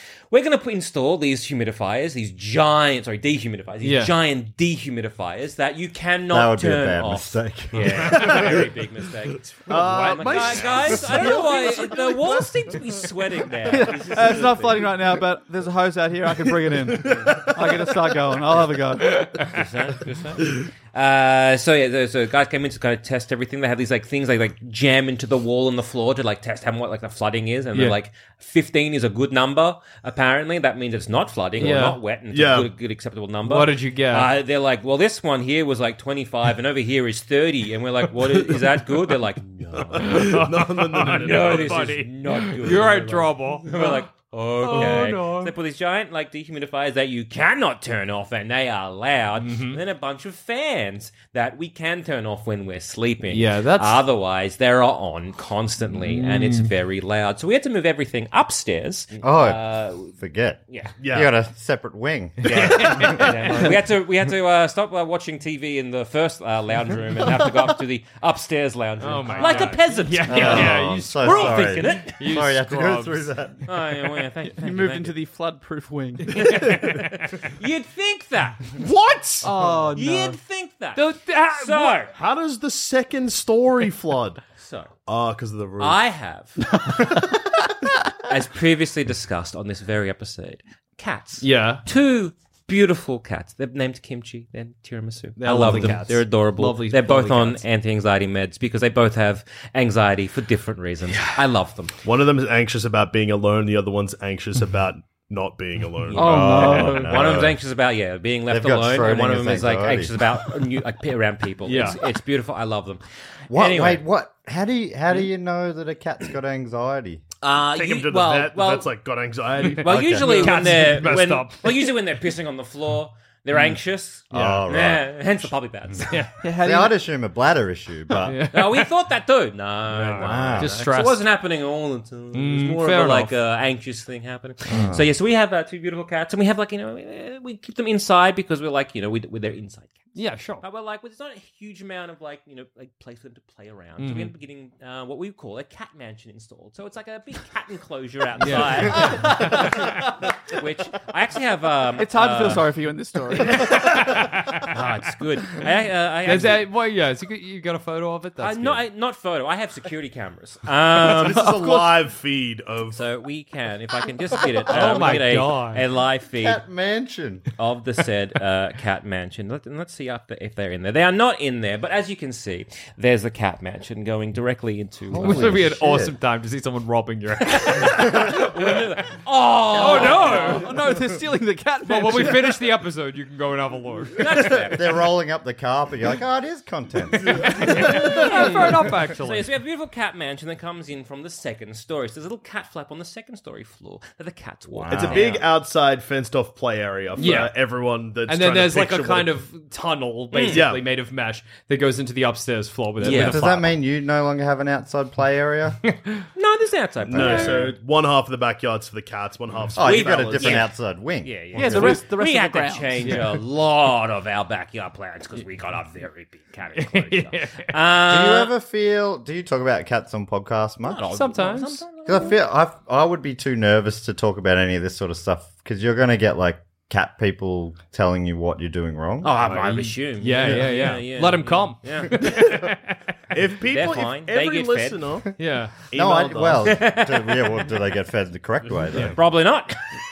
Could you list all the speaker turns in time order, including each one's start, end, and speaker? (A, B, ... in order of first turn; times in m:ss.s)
0:00.3-0:15.0 A
0:03.8-0:04.1 B
0:06.3-0:08.5 C
0:08.0-0:08.7 D
0:09.6-0:13.1 D
0:09.7-0:11.4 B
0:13.7-0:19.3 E
0:16.6-0:17.9 D
0:19.1-0:19.6 B
0:19.5-0:40.4 A
0:31.6-0:32.0 B
0:32.3-0:32.7 D
0:33.4-0:34.3 B
0:39.7-0:41.8 D
0:40.0-0:44.0 B
0:41.1-1:00.2 A
0:44.6-0:45.6 B
0:49.4-0:49.8 B
0:53.3-0:54.0 B
0:55.9-0:56.7 B
0:59.2-1:03.2 C
1:00.7-1:01.0 A
1:01.0-1:01.3 D
1:02.4-1:12.4 A
1:02.5-1:03.3 D
1:09.0-1:13.3 B
1:10.2-1:13.6 C
1:13.7-1:15.2 A
1:14.5-1:16.6 E
1:16.4-1:18.7 A
1:16.4-1:17.1 B
1:18.8-1:19.5 D
1:19.4-1:20.4 E
1:19.9-1:22.1 A
1:21.0-1:22.1 B
1:22.1-1:24.4 D
1:24.6-1:24.9 A
1:25.1-1:26.0 D
1:25.8-1:26.8 A
1:28.2-1:42.0 A
1:31.4-1:31.8 B
1:35.4-1:37.6 B
1:42.0-1:46.4 D
1:46.1-1:54.0 A
1:46.2-1:47.2 E
1:46.2-1:47.6 C
1:48.5-1:50.2 C
1:51.6-1:52.1 B
1:53.5-1:57.2 C
1:57.4-1:58.9 A
1:57.6-2:00.0 D
1:59.6-2:02.0 B
1:59.6-2:06.3 A
1:59.9-2:00.6 C
2:04.3-2:05.5 C
2:04.3-2:04.6 B
2:06.1-2:06.3 B
2:06.4-2:07.0 E
2:06.6-2:08.4 C
2:08.2-2:08.9 B
2:08.5-2:32.7 A
2:09.9-2:11.3 B
2:10.2-2:10.8 C
2:12.3-2:13.3 B
2:14.7-2:15.1 C
2:20.2-2:20.6 B
2:24.0-2:24.3 B
2:28.4-2:29.8 B
2:32.0-2:34.1 E
2:33.6-2:34.7 B
2:34.7-2:36.7 A
2:36.2-2:38.8 B
2:38.4-2:41.5 A
2:41.0-2:43.0 D
2:41.4-2:41.9 E
2:42.9-2:46.6 A
2:44.6-2:45.8 B
2:46.4-2:47.4 C
2:47.6-2:55.6 A
2:55.1-2:56.1 C
2:55.2-2:58.3 B
2:57.5-3:00.8 A
2:59.7-3:00.8 B
2:59.9-3:02.6 E
3:01.8-3:04.3 B
3:04.2-3:05.0 A
3:04.7-3:07.5 C
3:07.4-3:09.5 B
3:07.6-3:15.5 A
3:14.7-3:15.3 C
3:14.9-3:19.4 D
3:17.2-3:17.6 B
3:18.3-3:23.8 B
3:20.3-3:20.7 A
3:20.5-3:20.8 D
3:23.0-3:23.5 A
3:23.0-3:25.8 C
3:26.4-3:27.8 A
3:27.1-3:30.7 D
3:27.1-3:27.7 C
3:29.8-3:32.0 C
3:29.8-3:30.7 A
3:31.2-3:38.5 A
3:31.5-3:33.2 E
3:31.6-3:32.0 B
3:33.0-3:33.4 B
3:36.8-3:37.8 B
3:38.1-3:41.2 C
3:40.8-3:42.4 A
3:41.0-3:41.8 B
3:42.0-3:49.4 C
3:49.2-3:52.6 A
3:49.4-3:53.0 B
3:53.3-3:56.8 D
3:53.6-3:55.2 A
3:55.4-3:55.8 B
3:55.9-3:59.2 C
3:56.6-3:57.6 A
3:59.0-3:59.8 A